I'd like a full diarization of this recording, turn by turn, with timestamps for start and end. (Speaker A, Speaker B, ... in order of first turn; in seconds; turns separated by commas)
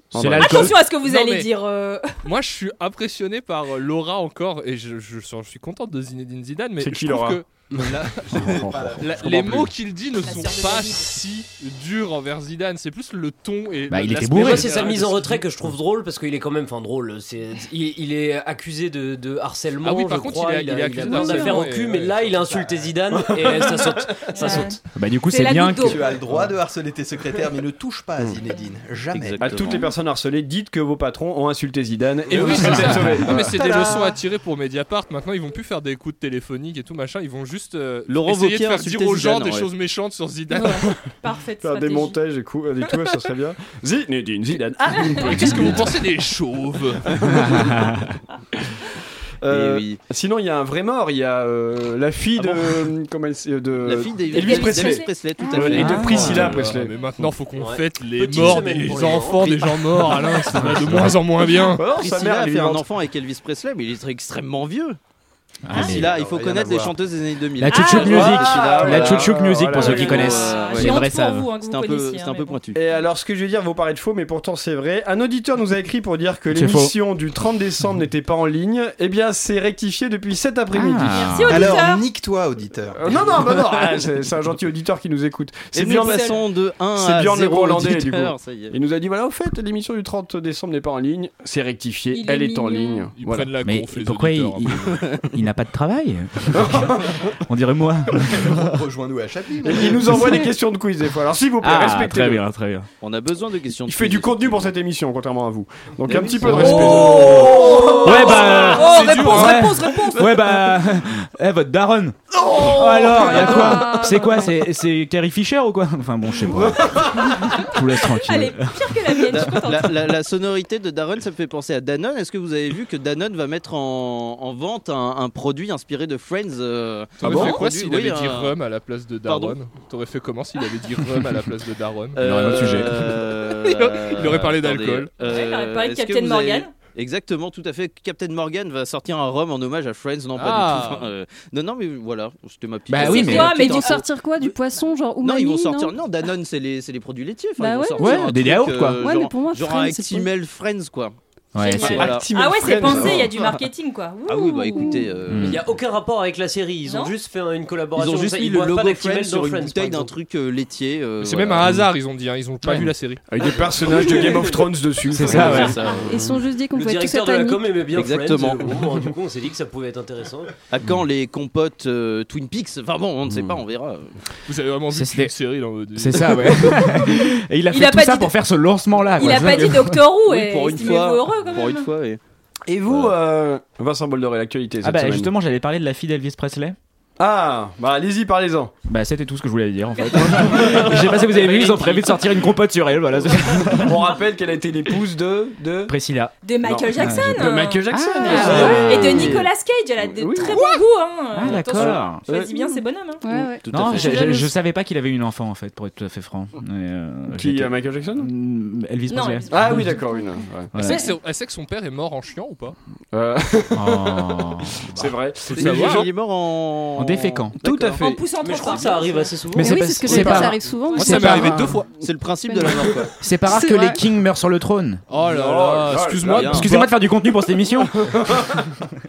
Speaker A: 0.1-0.7, Speaker B: 0.1-0.8, Speaker C: 0.4-2.1, Speaker D: 0.4-1.5, Speaker D: 2.2-15.4, Speaker A: 6.8-8.0, Speaker E: 8.3-9.7, Speaker A: 8.6-8.9, Speaker C: 10.1-11.1, Speaker B: 13.9-14.9, Speaker F: 14.3-24.8, Speaker D: 19.8-22.6, Speaker C: 21.1-21.6, Speaker A: 23.1-24.6, Speaker C: 24.3-26.1, Speaker B: 24.9-26.0, Speaker E: 25.8-29.6, Speaker G: 29.1-29.9, Speaker A: 29.4-34.0, Speaker D: 32.3-41.0, Speaker B: 32.4-33.3, Speaker G: 38.1-39.7, Speaker C: 40.5-42.2, Speaker A: 41.6-46.0, Speaker C: 44.8-45.8, Speaker D: 45.1-47.4, Speaker A: 47.0-47.9, Speaker B: 47.3-48.1, Speaker A: 49.4-56.9, Speaker G: 49.5-50.0, Speaker G: 53.8-56.6, Speaker C: 54.3-56.1, Speaker B: 55.8-56.6, Speaker D: 56.1-61.8, Speaker F: 57.5-59.8, Speaker C: 60.0-60.6, Speaker B: 60.6-61.2, Speaker A: 61.5-62.8, Speaker G: 61.9-65.0, Speaker B: 65.6-66.1, Speaker C: 65.7-66.0, Speaker G: 65.7-71.0, Speaker E: 65.8-67.0, Speaker B: 67.6-71.5, Speaker C: 67.7-68.7, Speaker A: 68.0-71.0, Speaker C: 69.8-72.6, Speaker G: 71.6-72.8, Speaker A: 72.8-81.5, Speaker B: 76.5-76.9, Speaker B: 80.7-81.6, Speaker C: 81.1-82.0, Speaker E: 81.5-83.7, Speaker A: 83.0-86.4, Speaker G: 85.7-88.8, Speaker C: 85.8-86.4, Speaker A: 86.9-93.5, Speaker C: 92.1-93.1, Speaker D: 93.2-95.0, Speaker B: 93.6-98.8, Speaker G: 95.1-95.4, Speaker A: 96.5-97.2, Speaker E: 98.2-100.2, Speaker A: 99.6-102.5, Speaker B: 100.0-100.5, Speaker B: 101.6-102.9, Speaker G: 103.0-104.7, Speaker A: 103.9-108.7, Speaker B: 106.4-119.5, Speaker C: 106.4-110.3, Speaker G: 106.5-106.9, Speaker D: 108.7-109.9, Speaker A: 112.4-114.1, Speaker C: 112.4-114.5, Speaker A: 116.5-117.4, Speaker C: 117.0-120.0, Speaker G: 119.3-128.5, Speaker D: 127.2-132.9, Speaker A: 127.2-127.5, Speaker C: 127.3-127.6, Speaker G: 129.3-129.6, Speaker G: 132.2-144.5, Speaker B: 132.2-133.2, Speaker D: 133.5-135.1, Speaker C: 135.2-136.7, Speaker D: 140.3-141.1, Speaker B: 142.9-143.6, Speaker C: 143.0-144.1, Speaker H: 143.4-145.9, Speaker G: 145.2-151.2, Speaker H: 147.6-148.3, Speaker B: 147.9-149.0, Speaker H: 149.0-150.3, Speaker B: 151.6-152.0, Speaker C: 151.6-155.1, Speaker A: 151.8-153.4, Speaker G: 151.8-153.7, Speaker G: 154.3-155.6, Speaker B: 155.3-155.7, Speaker F: 155.4-160.1, Speaker C: 156.8-157.1, Speaker G: 157.9-161.8, Speaker D: 161.2-163.2, Speaker B: 162.6-162.9, Speaker A: 163.3-166.4, Speaker G: 163.9-164.4, Speaker B: 165.1-165.8, Speaker G: 165.2-166.2, Speaker H: 165.9-167.7, Speaker F: 166.7-170.5, Speaker G: 167.9-169.1, Speaker G: 170.7-174.2, Speaker A: 173.3-173.6, Speaker D: 174.4-177.0, Speaker B: 174.9-175.3, Speaker B: 175.9-180.1, Speaker C: 176.7-177.1, Speaker C: 177.7-178.4, Speaker C: 179.1-181.9, Speaker G: 180.2-182.2, Speaker A: 182.7-185.3, Speaker G: 182.9-183.1, Speaker B: 184.8-186.8, Speaker A: 187.2-188.7, Speaker B: 188.9-194.0, Speaker A: 190.2-191.8, Speaker G: 191.2-192.3, Speaker A: 193.7-195.9, Speaker B: 195.9-196.3, Speaker C: 196.4-203.2, Speaker A: 196.6-200.7, Speaker B: 197.0-199.4, Speaker H: 198.4-198.7, Speaker B: 201.3-202.3, Speaker A: 201.6-202.7, Speaker H: 203.2-203.7, Speaker A: 203.3-203.6, Speaker G: 203.6-204.4, Speaker B: 203.7-210.0, Speaker C: 203.9-204.5, Speaker A: 207.3-208.3, Speaker C: 209.1-209.7, Speaker A: 209.5-210.8, Speaker B: 210.7-211.1, Speaker D: 210.8-212.8, Speaker H: 210.8-211.1, Speaker A: 213.1-216.1, Speaker B: 213.7-215.0, Speaker D: 215.5-216.1, Speaker G: 215.5-218.1, Speaker B: 216.9-217.6, Speaker A: 217.6-219.1, Speaker C: 217.9-221.2, Speaker F: 218.4-220.1, Speaker B: 219.5-221.8, Speaker H: 219.6-221.8, Speaker D: 220.9-221.9, Speaker G: 221.9-223.1, Speaker H: 222.4-224.0, Speaker B: 223.2-225.0, Speaker D: 225.1-226.9, Speaker A: 225.2-226.7, Speaker G: 225.3-226.7, Speaker B: 226.4-228.3, Speaker A: 228.0-228.7